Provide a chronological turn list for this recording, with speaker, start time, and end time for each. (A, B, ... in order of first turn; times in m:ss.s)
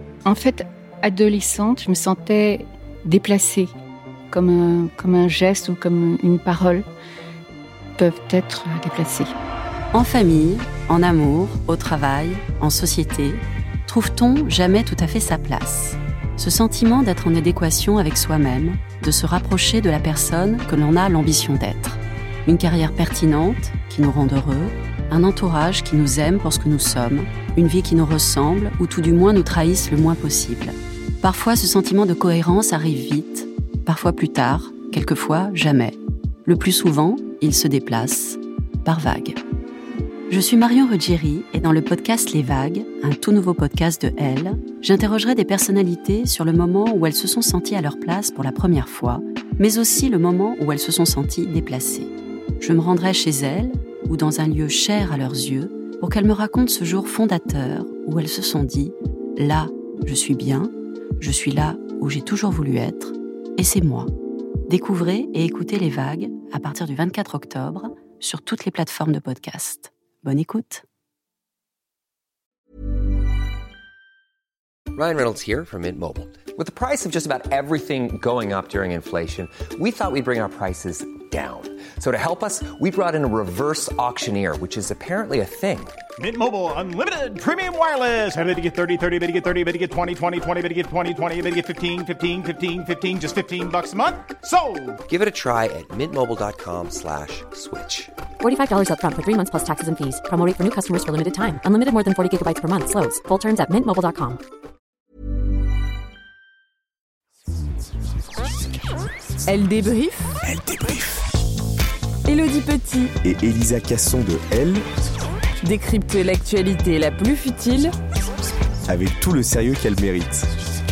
0:00.2-0:03.7 A
0:04.3-0:06.9 A
0:08.0-0:09.3 A
0:09.9-0:39.4 B
0:40.3-1:04.1 B
1:04.7-1:10.8 B
1:14.9-1:26.0 C
1:26.2-1:35.0 D
1:35.0-1:38.1 C
1:38.4-1:44.4 E
1:49.4-1:50.4 F
1:50.5-1:51.0 G
1:52.2-1:53.2 F
1:53.2-1:54.8 G
1:55.6-1:57.9 F
1:58.8-2:00.5 G